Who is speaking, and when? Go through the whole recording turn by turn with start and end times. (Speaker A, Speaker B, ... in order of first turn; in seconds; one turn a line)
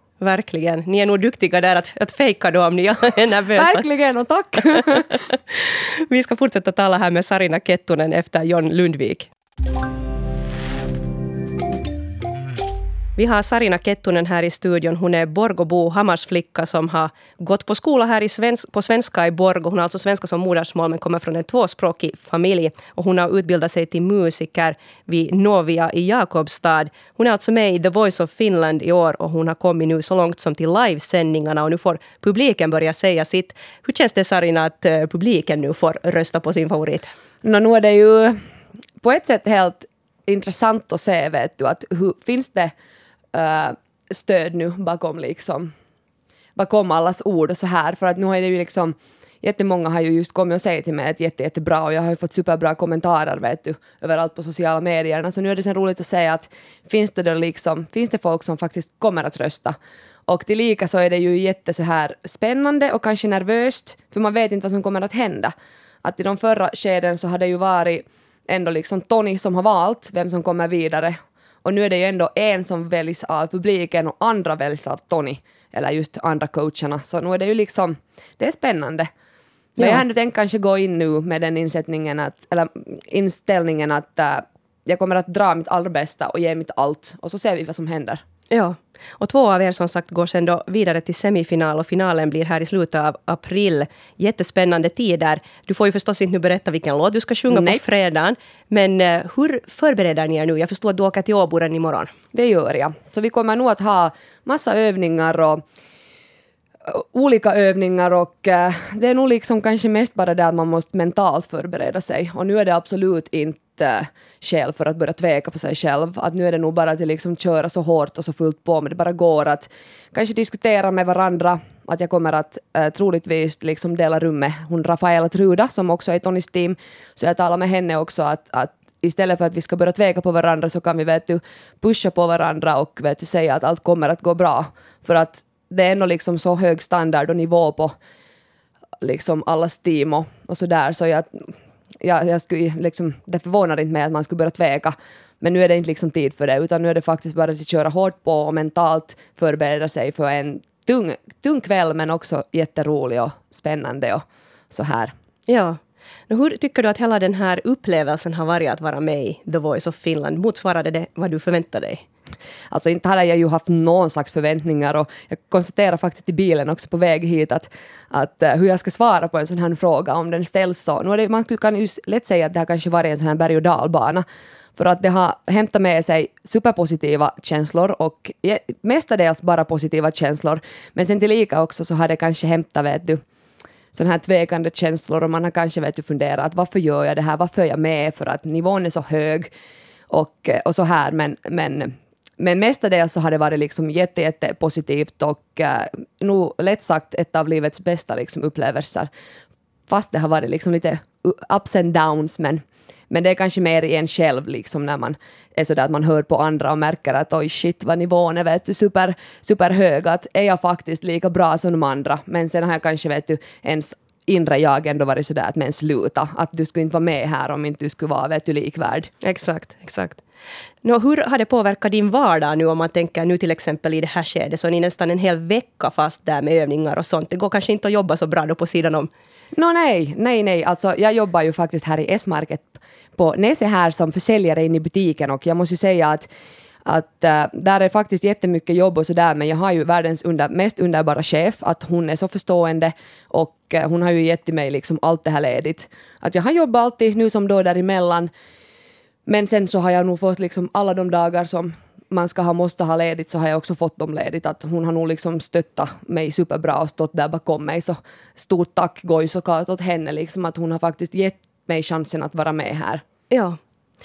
Speaker A: 0.2-3.8
Speaker B: 3.5-5.1
Speaker A: 4.9-9.3
Speaker A: 13.2-37.1
Speaker B: 37.4-38.4
Speaker B: 39.0-42.7
Speaker B: 43.3-45.7
Speaker B: 46.6-59.8
Speaker B: 60.3-79.1
Speaker B: 79.8-88.2
Speaker A: 79.8-80.0
Speaker A: 88.5-102.1
Speaker B: 97.5-97.8
Speaker B: 102.3-105.6
Speaker B: 106.9-137.9
Speaker B: 139.0-155.1
Speaker A: 155.5-155.8
Speaker A: 156.3-162.0
Speaker B: 162.7-174.2
Speaker B: 174.8-183.2
Speaker B: 183.9-189.5
Speaker B: 190.1-199.1
Speaker B: 199.9-219.1
Speaker A: 219.2-220.2
Speaker A: 220.8-229.1
Speaker B: 229.5-236.3
Speaker B: 236.9-248.3
Speaker B: 249.3-263.0
Speaker A: 263.3-263.6